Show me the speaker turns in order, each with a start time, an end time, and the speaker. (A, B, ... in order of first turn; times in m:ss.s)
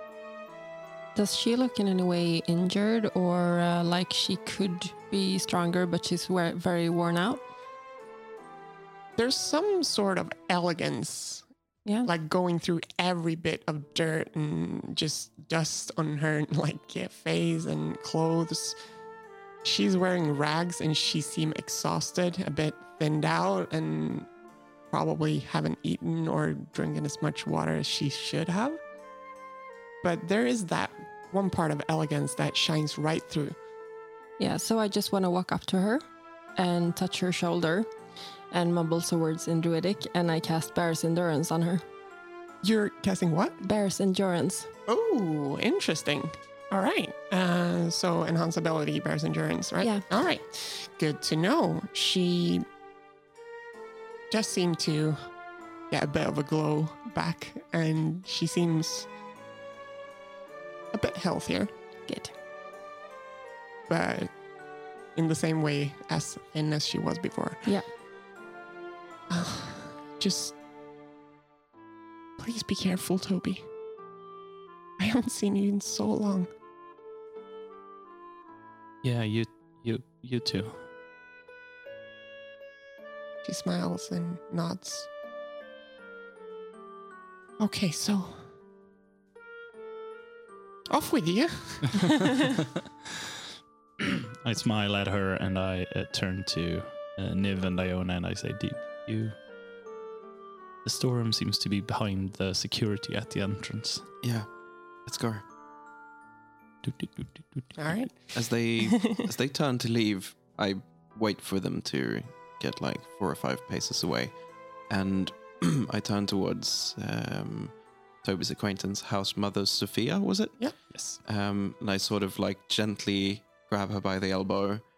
0:01.1-0:07.4 A
0:09.2-0:11.4 B
0:12.0-0:18.8 B
0:19.6-0:24.3 B
0:24.9-0:28.8 B
0:30.0-0:33.6 B
0:34.4-0:36.0 A
0:36.6-0:37.9 A
0:38.5-0:41.8 A
0:42.6-0:43.6 B
0:43.6-0:44.7 A
0:44.9-0:52.6 B
0:54.3-0:55.2 B
0:55.9-0:59.1 B
1:00.9-1:01.7 B
1:02.1-1:02.3 A
1:03.9-1:04.3 B
1:05.1-1:07.7 B
1:09.3-1:10.6 B
1:12.4-1:13.7 B
1:15.0-1:16.5 B
1:19.0-1:20.8 C
1:23.4-1:25.1 B
1:27.6-1:28.4 B
1:30.9-1:32.0 B
1:34.0-1:39.3 C
1:40.8-1:44.0 C
1:44.2-1:44.5 D
1:45.0-1:45.4 D
1:46.8-1:48.0 C
1:47.8-1:48.1 B
1:48.3-1:54.3 D
1:54.9-2:00.6 D
2:00.9-2:01.2 C
2:01.2-2:04.8 D